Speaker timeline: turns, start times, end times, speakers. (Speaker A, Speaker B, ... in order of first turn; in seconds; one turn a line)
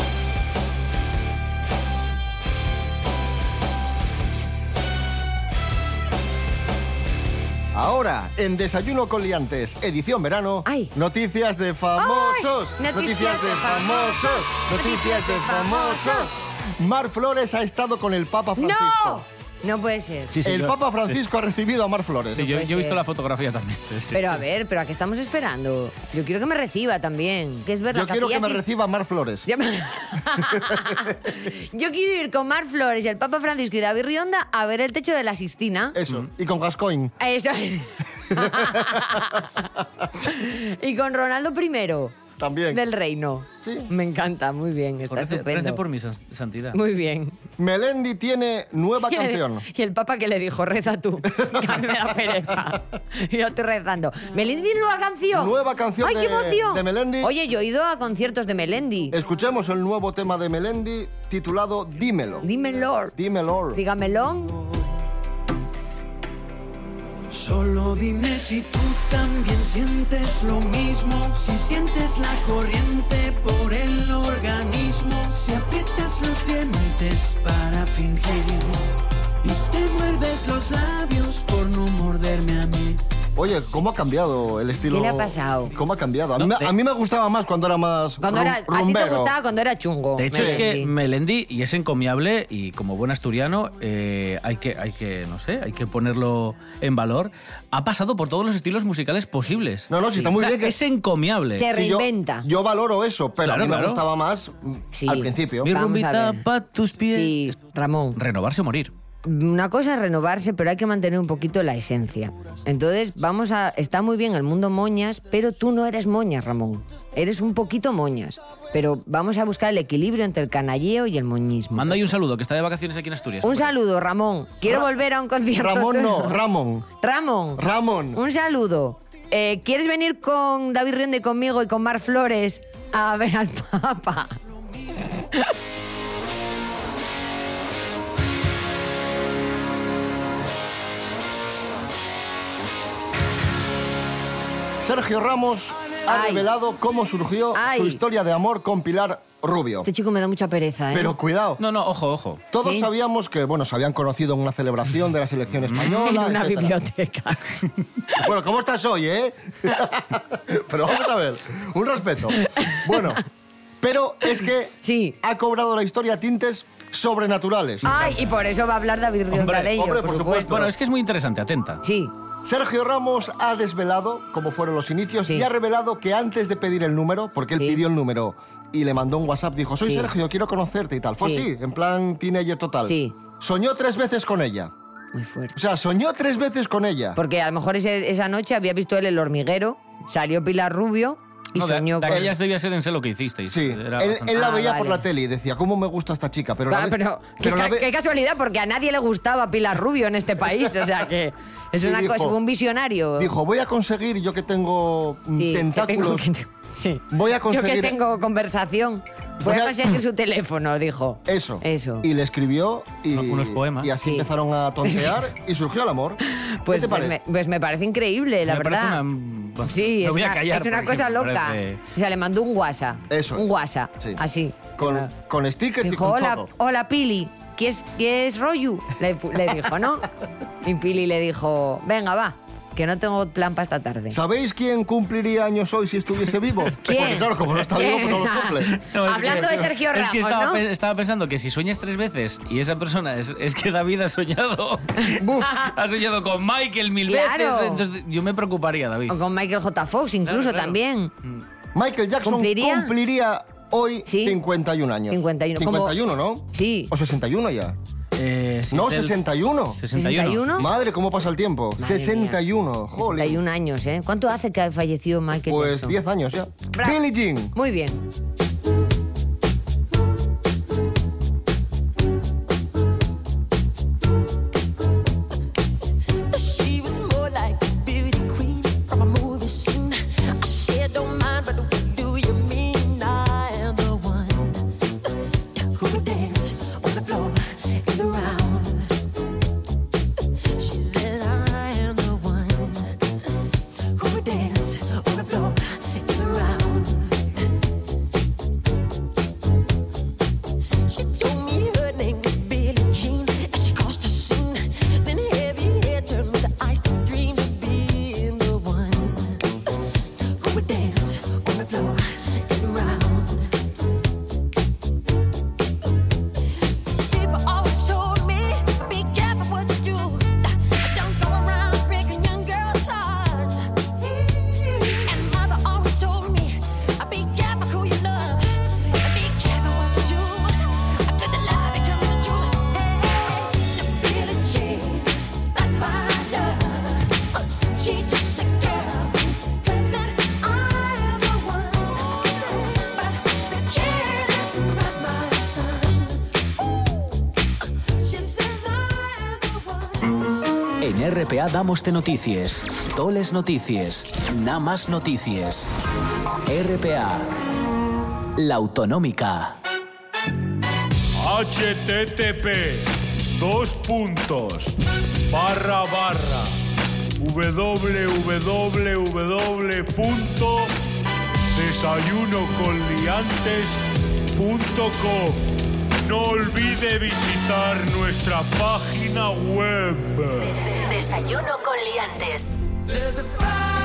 Speaker A: 7.7-19.2
Speaker B: 10.7-10.9
Speaker B: 12.0-16.3
Speaker B: 18.6-20.3
Speaker C: 20.3-21.2
Speaker A: 20.4-22.5
Speaker C: 22.4-24.4
Speaker B: 22.4-23.0
Speaker B: 24.1-28.7
Speaker A: 27.9-29.5
Speaker B: 29.5-36.0
Speaker A: 30.5-30.9
Speaker A: 35.9-37.1
Speaker B: 37.2-39.6
Speaker A: 38.3-39.2
Speaker B: 40.2-42.2
Speaker A: 42.4-42.8
Speaker B: 42.7-45.8
Speaker A: 43.6-43.9
Speaker C: 45.1-46.8
Speaker B: 46.7-47.4
Speaker A: 47.6-49.6
Speaker B: 49.1-59.2
Speaker A: 51.3-52.0
Speaker A: 55.3-57.3
Speaker A: 59.1-62.5
Speaker B: 62.4-63.1
Speaker A: 63.2-63.8
Speaker B: 63.7-64.6
Speaker D: 67.3-78.9
Speaker D: 79.4-83.0
Speaker A: 83.4-89.3
Speaker B: 84.9-85.7
Speaker C: 86.4-86.7
Speaker B: 88.2-90.9
Speaker C: 90.2-101.7
Speaker A: 90.3-90.7
Speaker A: 99.9-100.8
Speaker B: 101.6-102.5
Speaker A: 101.6-105.7
Speaker C: 103.4-104.0
Speaker B: 104.9-106.4
Speaker C: 105.6-107.6
Speaker B: 107.1-108.2
Speaker C: 108.2-108.9
Speaker B: 109.2-122.1
Speaker C: 121.7-123.7
Speaker B: 123.4-126.4
Speaker A: 125.6-126.9
Speaker B: 127.0-134.4
Speaker A: 127.6-128.2
Speaker A: 144.8-149.9
Speaker B: 146.1-146.5
Speaker B: 147.6-148.0
Speaker B: 149.8-151.2
Speaker A: 150.9-151.6
Speaker C: 151.6-152.4
Speaker A: 152.5-156.8
Speaker B: 152.6-152.9
Speaker B: 155.8-157.6
Speaker A: 158.2-163.2
Speaker B: 162.4-163.0
Speaker A: 163.8-168.0
Speaker B: 164.8-165.2
Speaker B: 167.8-170.6
Speaker C: 169.3-169.8
Speaker A: 169.8-170.7
Speaker C: 170.3-171.8
Speaker B: 171.8-172.1
Speaker A: 172.4-184.7
Speaker B: 179.9-180.1
Speaker B: 181.2-181.5
Speaker B: 182.9-183.1
Speaker B: 185.1-185.6
Speaker A: 185.6-187.2
Speaker B: 187.2-192.3
Speaker C: 191.6-194.4
Speaker A: 193.5-197.9
Speaker B: 194.3-195.0
Speaker B: 196.7-203.3
Speaker A: 201.8-202.4
Speaker A: 203.2-206.3
Speaker B: 205.4-212.1
Speaker A: 207.1-208.0
Speaker A: 209.4-209.9
Speaker A: 211.3-217.2
Speaker C: 213.1-213.9
Speaker B: 214.0-214.3
Speaker B: 214.8-215.2
Speaker B: 216.3-219.0
Speaker C: 218.5-221.8
Speaker B: 219.7-225.1
Speaker A: 223.1-223.5
Speaker A: 224.8-226.5
Speaker B: 225.8-230.1
Speaker B: 230.6-234.2
Speaker A: 234.1-238.8
Speaker B: 236.8-240.6
Speaker C: 238.7-249.2
Speaker A: 245.2-245.6
Speaker B: 247.1-247.8
Speaker B: 249.1-251.1
Speaker C: 250.3-251.4
Speaker A: 251.8-257.8
Speaker B: 252.2-252.9
Speaker B: 254.1-254.4
Speaker B: 255.1-256.0
Speaker B: 256.5-256.9
Speaker C: 258.2-260.6
Speaker A: 258.7-259.8
Speaker B: 259.9-260.7
Speaker A: 260.5-263.4
Speaker B: 261.8-262.4
Speaker B: 263.0-266.0
Speaker A: 265.5-267.5
Speaker B: 266.7-267.0
Speaker B: 267.5-268.0
Speaker E: 276.3-284.7
Speaker E: 285.6-288.9
Speaker E: 290.6-293.0
Speaker E: 293.9-297.3
Speaker E: 300.9-309.4
Speaker E: 310.3-313.5
Speaker E: 316.9-346.2
Speaker E: 348.0-350.1
Speaker F: 350.8-355.7
Speaker F: 356.5-357.3
Speaker F: 358.4-359.6
Speaker G: 361.2-364.8
Speaker G: 365.3-366.6
Speaker G: 367.2-370.7
Speaker G: 371.5-373.8
Speaker G: 374.3-375.5
Speaker G: 376.0-380.5
Speaker H: 380.4-382.5